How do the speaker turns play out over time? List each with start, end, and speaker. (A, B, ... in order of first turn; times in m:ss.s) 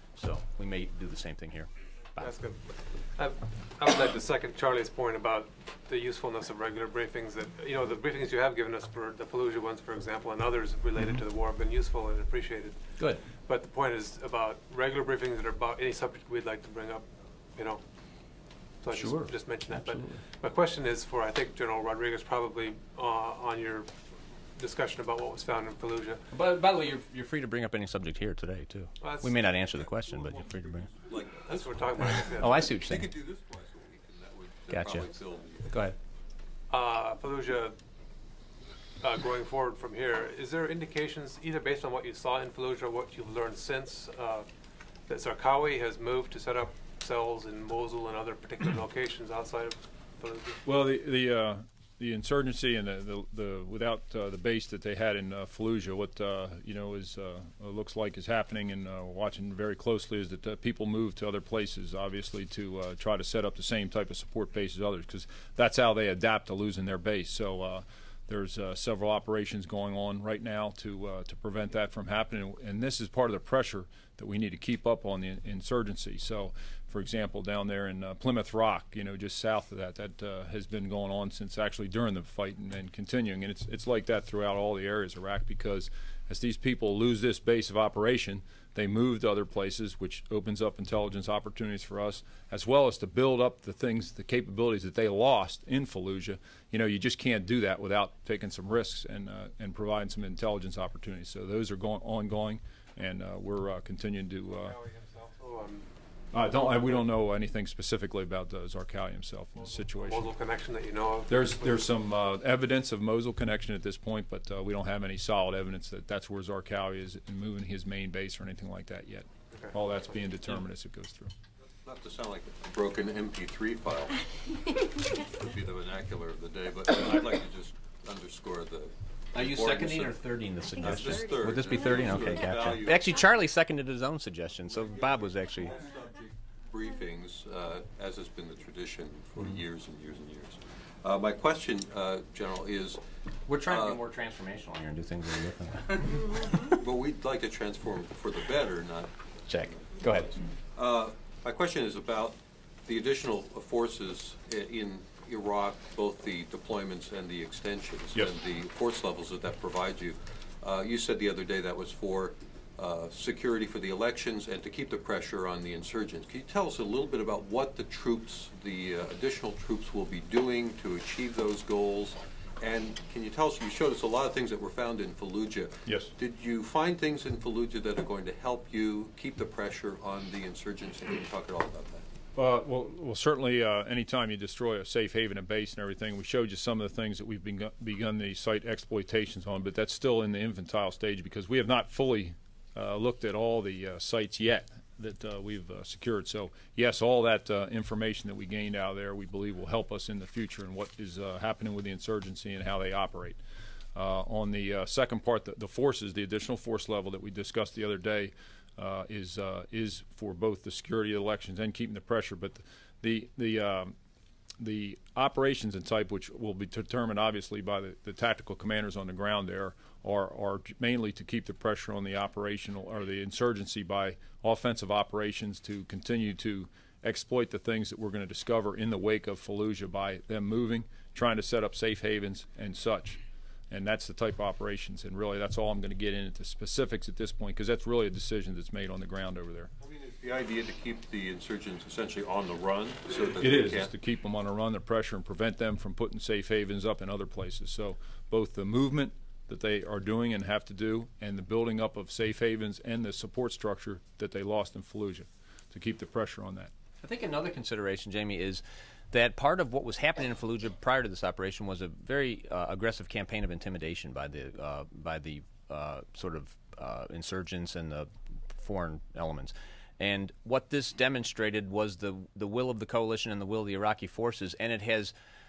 0:00.2-0:02.3 A
0:02.2-0:17.8 B
0:18.8-0:23.9 B
0:18.9-0:20.2 A
0:24.5-0:26.2 B
0:26.3-0:30.9 A
0:29.0-0:29.5 B
0:30.1-0:35.8 C
0:31.4-0:32.7 B
0:32.3-0:33.1 A
0:34.7-0:35.1 A
0:35.7-0:36.0 A
0:36.7-0:37.8 B
0:39.0-0:44.5 B
0:45.1-0:50.6 B
0:50.6-1:44.8 D
1:44.5-1:45.9 B
1:46.3-1:50.3 D
1:49.8-1:51.8 B
1:51.3-2:01.3 D
1:59.5-1:59.8 B
2:01.7-2:10.2 C
2:09.3-2:15.8 A
2:10.8-2:13.2 C
2:14.7-2:23.0 C
2:23.5-2:26.1 A
2:23.6-2:24.0 C
2:26.6-2:30.2 C
2:29.5-2:30.3 A
2:30.7-3:02.0 C
2:55.8-2:56.1 D
3:02.3-3:23.4 D
3:23.9-3:33.9 D
3:34.6-3:53.2 D
3:53.7-3:59.7 D
3:59.8-4:03.9 C
4:03.4-4:16.7 D
4:17.0-4:35.1 A